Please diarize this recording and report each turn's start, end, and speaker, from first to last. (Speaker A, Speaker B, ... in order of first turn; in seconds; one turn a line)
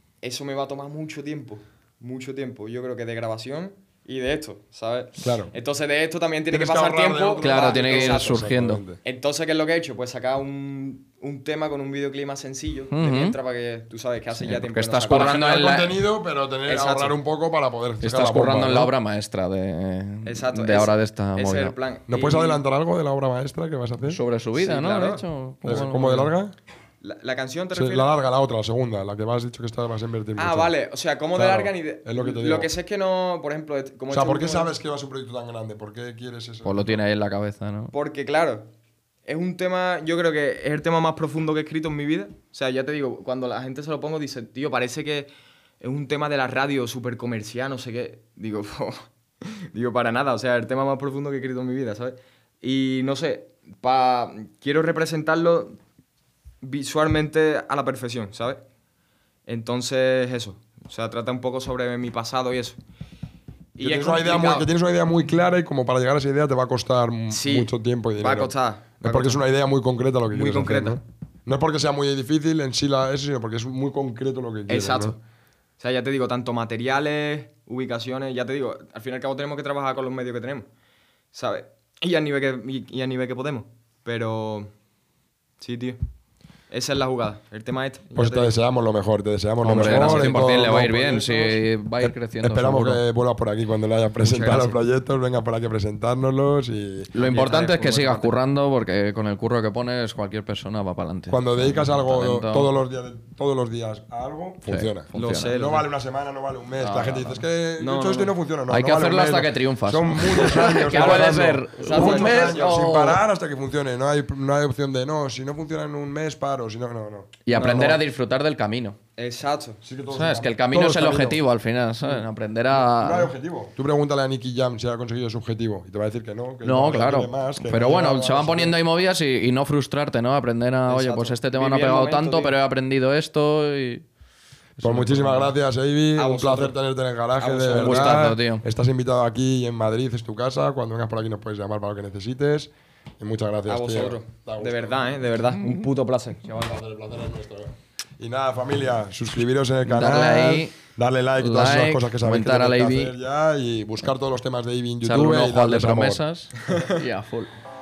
Speaker A: 0.2-8.4
Speaker B: 5.2-5.5
Speaker B: 6.5-9.0
Speaker C: 7.4-8.8
Speaker A: 9.0-15.4
Speaker C: 12.9-13.4
Speaker C: 14.3-16.0
Speaker B: 15.1-18.9
Speaker A: 16.6-17.1
Speaker C: 18.0-21.7
Speaker A: 20.2-22.6
Speaker B: 22.1-24.2
Speaker C: 24.0-26.3
Speaker A: 24.5-25.8
Speaker B: 25.6-26.5
Speaker A: 27.0-28.1
Speaker B: 27.7-30.7
Speaker A: 30.4-34.7
Speaker B: 31.3-32.7
Speaker B: 34.1-37.0
Speaker C: 36.6-37.9
Speaker A: 37.9-38.7
Speaker A: 39.2-45.3
Speaker A: 45.8-55.8
Speaker A: 56.6-58.6
Speaker A: 59.5-62.8
Speaker A: 63.8-64.7
Speaker B: 63.8-75.2
Speaker A: 67.3-69.4
Speaker A: 70.3-71.0
Speaker A: 74.7-75.2
Speaker A: 75.8-80.7
Speaker A: 81.3-84.7
Speaker A: 85.6-86.0
Speaker A: 86.7-88.6
Speaker B: 88.2-97.1
Speaker C: 89.6-93.0
Speaker A: 89.6-90.5
Speaker A: 94.2-94.8
Speaker C: 97.1-102.7
Speaker A: 97.2-98.3
Speaker B: 101.3-118.0
Speaker C: 104.7-105.6
Speaker A: 105.1-105.8
Speaker C: 106.8-107.4
Speaker A: 107.8-108.3
Speaker C: 108.7-113.2
Speaker A: 110.7-113.1
Speaker C: 117.5-119.0
Speaker A: 117.5-118.0
Speaker A: 119.2-119.8
Speaker B: 119.8-121.4
Speaker C: 120.1-123.3
Speaker B: 122.7-128.8
Speaker C: 126.6-134.1
Speaker A: 130.9-132.5
Speaker C: 134.8-135.5
Speaker B: 134.8-145.2
Speaker A: 136.2-136.8
Speaker A: 137.4-138.3
Speaker C: 137.7-138.6
Speaker A: 143.7-146.4
Speaker B: 146.4-156.2
Speaker C: 149.8-150.8
Speaker C: 151.4-153.1
Speaker C: 155.0-157.5
Speaker A: 156.7-157.0